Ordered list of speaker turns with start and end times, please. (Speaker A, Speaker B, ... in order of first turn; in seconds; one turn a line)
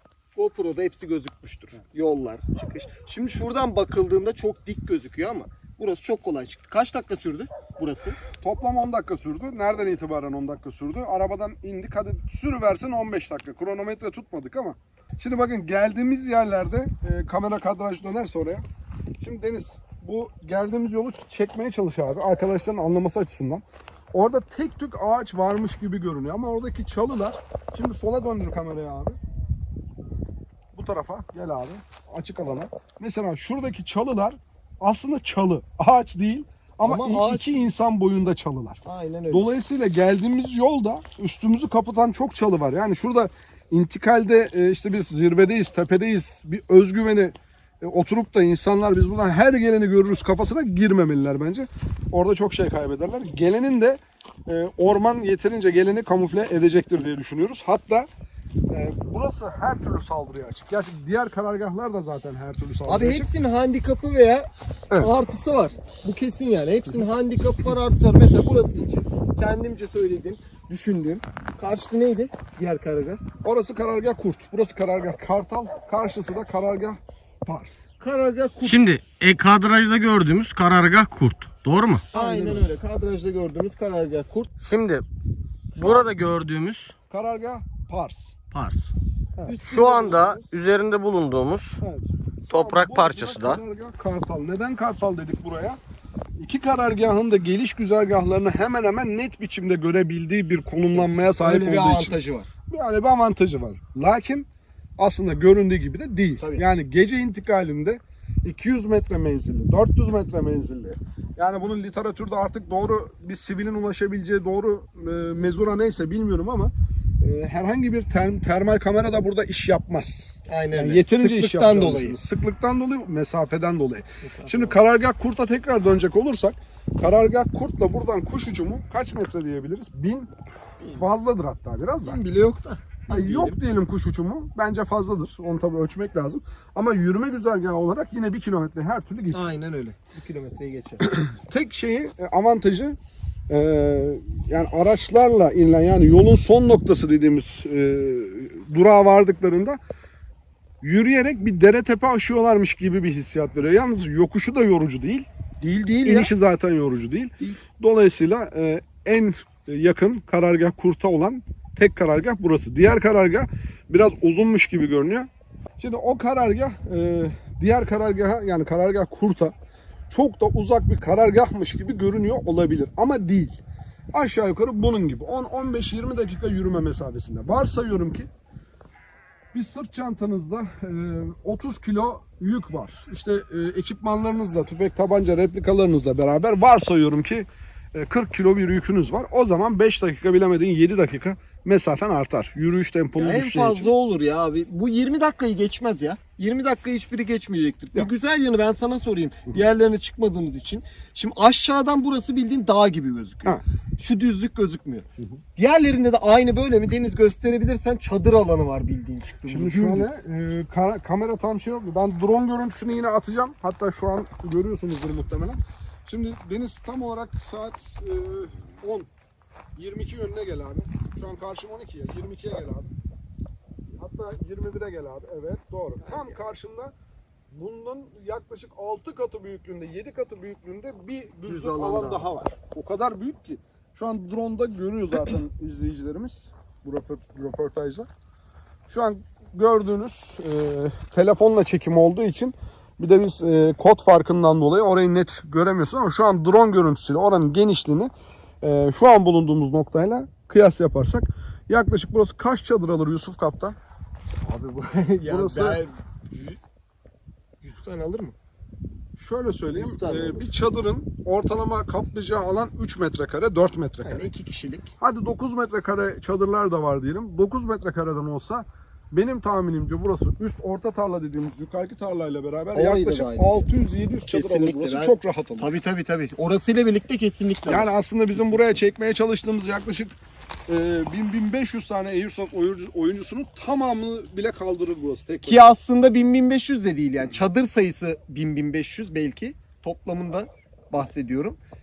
Speaker A: 0.3-8.2
Speaker B: 8.4-18.6
Speaker B: 19.2-29.2
Speaker B: 30.7-58.1
Speaker A: 36.8-37.7
Speaker A: 38.8-39.5
Speaker B: 58.7-63.3
Speaker A: 62.9-73.2
Speaker B: 73.4-77.8
Speaker A: 78.0-78.9
Speaker C: 78.6-82.1
Speaker B: 82.1-82.7
Speaker A: 82.1-84.5
Speaker C: 84.6-85.0
Speaker B: 85.8-86.1
Speaker C: 85.8-86.9
Speaker B: 87.1-88.4
Speaker C: 88.5-88.9
Speaker B: 89.4-90.5
Speaker C: 89.6-91.8
Speaker B: 91.8-95.8
Speaker C: 92.5-93.6
Speaker B: 96.4-102.2
Speaker A: 101.0-102.5
Speaker B: 102.7-104.5
Speaker B: 105.0-130.3
Speaker A: 106.4-106.7
Speaker A: 120.5-122.2
Speaker A: 124.2-124.8
Speaker A: 130.8-131.1
Speaker B: 130.9-132.2
Speaker A: 132.0-133.6
Speaker B: 133.1-139.5
Speaker A: 139.3-141.1
Speaker B: 141.0-143.0
Speaker B: 143.5-149.8
Speaker B: 150.8-155.3
Speaker A: 155.6-156.3
Speaker B: 156.1-169.5
Speaker B: 170.1-173.6
Speaker B: 174.1-178.3
Speaker B: 179.5-193.9
Speaker A: 193.2-210.2
Speaker B: 209.5-219.1
Speaker B: 219.8-222.9
Speaker B: 223.9-226.9
Speaker A: 226.0-226.4
Speaker B: 227.5-238.1
Speaker A: 231.5-232.3
Speaker B: 238.9-253.8
Speaker A: 254.4-256.6
Speaker B: 255.3-255.8
Speaker A: 257.6-258.4
Speaker B: 259.2-264.3
Speaker A: 259.8-260.5
Speaker A: 264.0-264.9
Speaker B: 265.0-275.7
Speaker A: 272.8-273.7
Speaker A: 274.3-278.6
Speaker B: 277.7-280.2
Speaker B: 280.7-285.7
Speaker A: 285.4-291.6